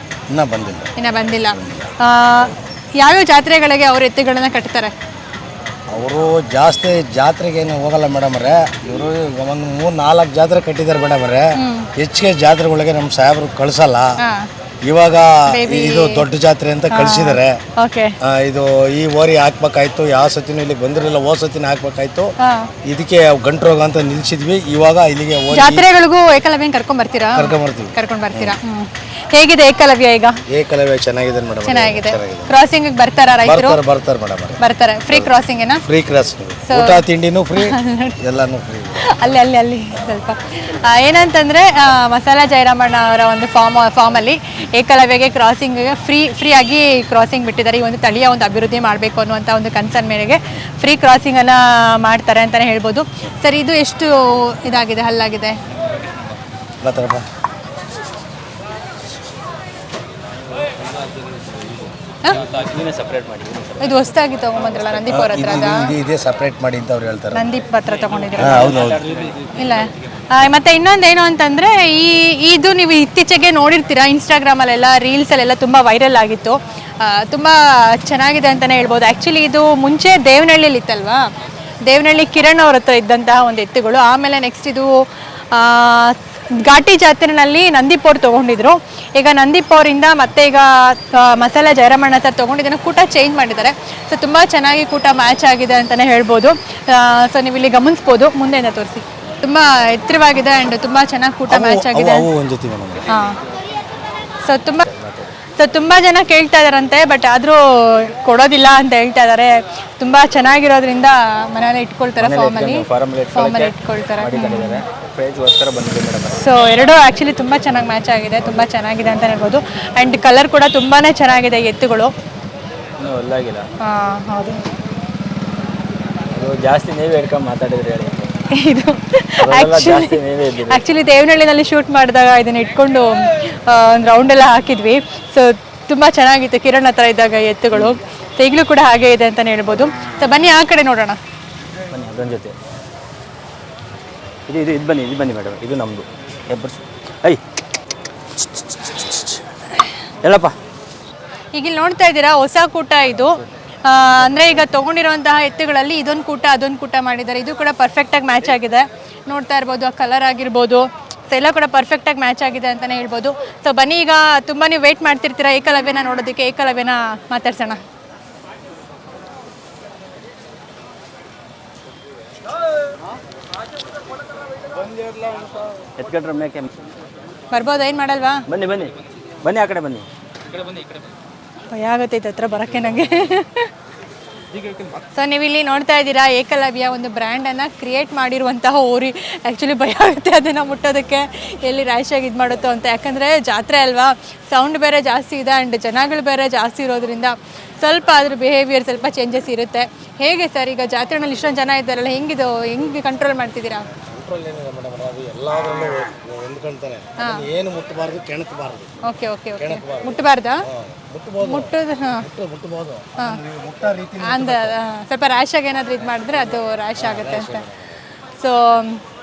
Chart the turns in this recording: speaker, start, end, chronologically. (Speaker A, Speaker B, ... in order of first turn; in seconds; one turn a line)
Speaker A: 0.3-0.9
Speaker B: 1.0-4.9
Speaker A: 1.5-1.9
Speaker A: 5.9-14.2
Speaker B: 11.6-11.9
Speaker B: 14.2-14.5
Speaker A: 14.8-17.6
Speaker B: 15.5-16.2
Speaker B: 16.9-18.1
Speaker A: 18.2-25.9
Speaker B: 22.4-22.7
Speaker B: 25.5-30.4
Speaker A: 27.4-28.6
Speaker A: 30.5-32.5
Speaker B: 31.6-33.8
Speaker A: 33.4-34.6
Speaker B: 34.6-35.8
Speaker A: 35.9-39.2
Speaker B: 36.6-37.0
Speaker B: 37.6-38.1
Speaker B: 39.0-55.6
Speaker A: 56.8-57.3
Speaker A: 61.3-61.8
Speaker C: 62.4-64.0
Speaker B: 63.8-65.9
Speaker A: 65.1-67.5
Speaker B: 67.3-68.8
Speaker C: 68.3-69.6
Speaker A: 68.4-69.1
Speaker B: 69.5-81.3
Speaker B: 81.8-102.3
Speaker A: 101.5-103.1
Speaker B: 103.1-103.4
Speaker B: 104.4-104.9
Speaker C: 104.9-105.3
Speaker B: 105.6-114.8
Speaker C: 112.2-116.5
Speaker B: 116.4-122.1
Speaker C: 123.0-123.7
Speaker B: 123.8-124.6
Speaker C: 126.3-128.3
Speaker B: 128.5-141.2
Speaker C: 129.4-130.8
Speaker C: 141.9-142.5
Speaker C: 144.5-147.4
Speaker C: 148.4-149.4
Speaker C: 150.2-150.6
Speaker B: 151.5-167.8
Speaker A: 174.8-175.5
Speaker C: 176.0-176.7
Speaker B: 177.5-178.4
Speaker C: 178.5-180.1
Speaker B: 181.7-183.7
Speaker B: 185.1-203.9
Speaker A: 204.0-209.0
Speaker B: 207.2-207.5
Speaker B: 209.0-210.7
Speaker A: 209.6-214.8
Speaker B: 211.4-212.3
Speaker B: 214.2-217.7
Speaker A: 217.0-218.0
Speaker B: 218.4-219.0